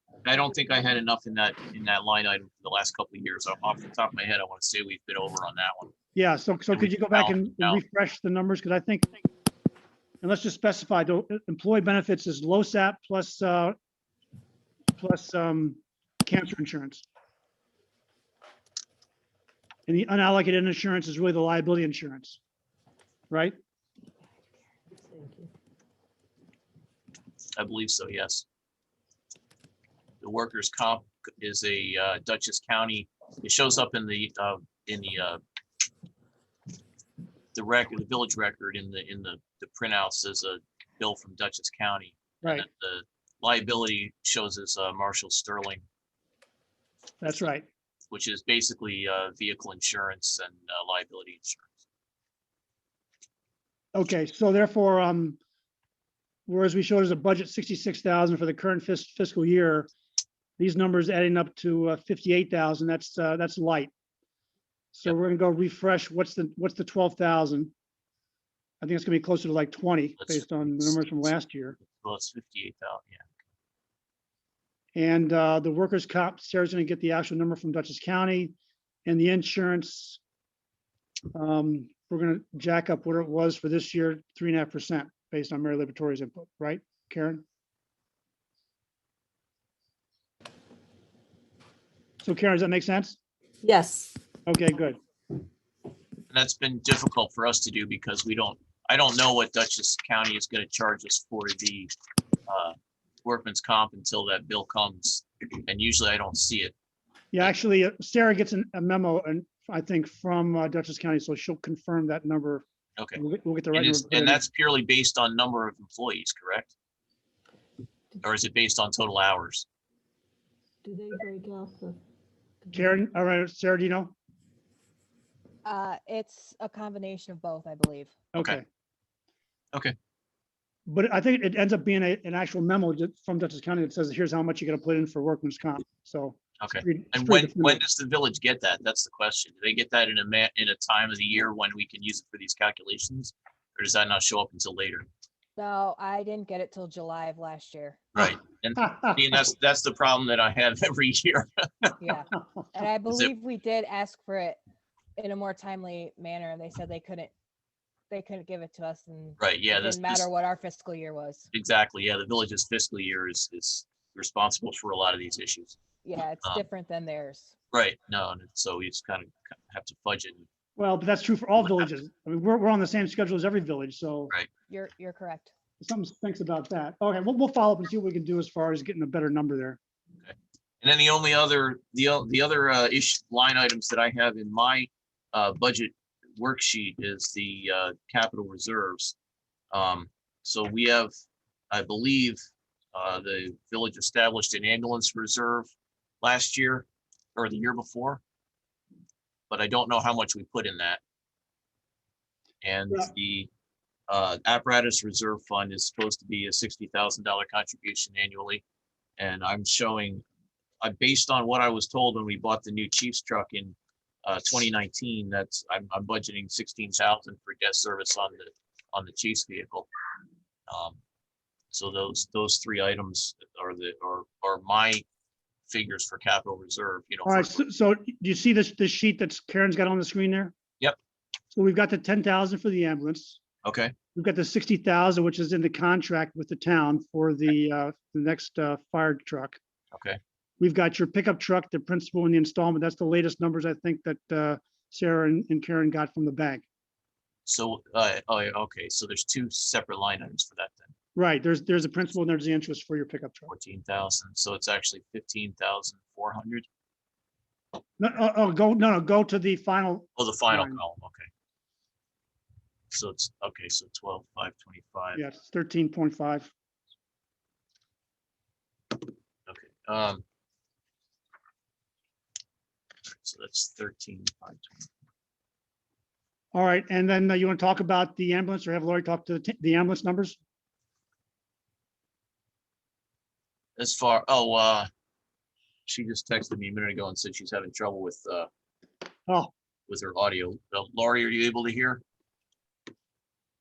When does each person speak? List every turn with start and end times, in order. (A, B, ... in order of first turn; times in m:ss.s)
0:00.2-0:05.9 A
0:06.1-0:09.1 B
0:06.7-0:07.8 A
0:10.2-0:13.8 B
0:15.0-0:17.0 B
0:19.9-0:22.4 B
0:23.3-0:23.6 B
0:24.9-0:25.5 C
0:27.5-0:28.4 A
0:30.2-0:35.4 A
0:37.5-0:45.8 A
0:47.2-0:47.7 B
0:48.1-0:51.7 A
0:53.9-0:55.4 B
0:56.5-0:59.9 B
1:00.6-1:03.9 B
1:04.9-1:07.7 B
1:08.8-1:11.8 B
1:10.2-1:11.0 A
1:11.9-1:13.3 A
1:15.0-1:20.2 B
1:21.3-1:27.4 B
1:32.2-1:33.2 B
1:33.6-1:34.1 C
1:34.5-1:35.0 B
1:36.3-1:41.9 A
1:42.5-1:46.7 A
1:47.3-1:52.6 B
1:53.0-1:53.2 A
1:53.2-1:54.4 B
1:53.7-1:56.7 A
1:58.2-1:59.7 A
2:00.8-2:02.0 C
2:02.6-2:02.9 C
2:02.7-2:04.1 B
2:05.6-2:08.1 D
2:08.3-2:08.6 B
2:10.9-2:17.8 B
2:16.6-2:25.0 A
2:25.6-2:28.0 D
2:28.1-2:32.0 A
2:32.0-2:34.6 D
2:35.2-2:37.3 D
2:38.1-2:41.5 D
2:39.4-2:40.3 A
2:41.5-2:45.8 A
2:46.0-2:47.5 D
2:47.7-2:50.5 A
2:50.8-2:54.3 B
2:51.6-2:51.9 A
2:54.7-2:55.5 D
2:55.8-2:59.8 B
3:00.2-3:09.1 A
3:09.7-3:11.1 A
3:11.7-3:12.4 A
3:12.9-3:15.7 A
3:16.2-3:18.2 A
3:19.5-3:21.0 A
3:22.6-3:23.5 A
3:24.1-3:28.6 A
3:29.2-3:30.2 A
3:30.8-3:39.9 A
3:40.7-3:41.0 A
3:41.7-3:45.0 A
3:45.7-3:47.6 A
3:47.2-3:50.5 B
3:51.5-3:53.4 B
3:53.6-3:53.9 A
3:54.1-3:59.6 B
3:59.9-4:00.2 A
4:00.6-4:06.6 B
4:07.4-4:10.9 A
4:11.1-4:13.5 B
4:13.5-4:16.7 A
4:18.0-4:20.8 B
4:20.2-4:21.3 A
4:22.9-4:25.2 A
4:25.1-4:26.5 B
4:29.5-4:30.2 A
4:33.0-4:34.9 A
4:36.5-4:40.4 B
4:43.8-4:44.9 A
4:45.8-4:48.5 A
4:49.9-4:52.0 A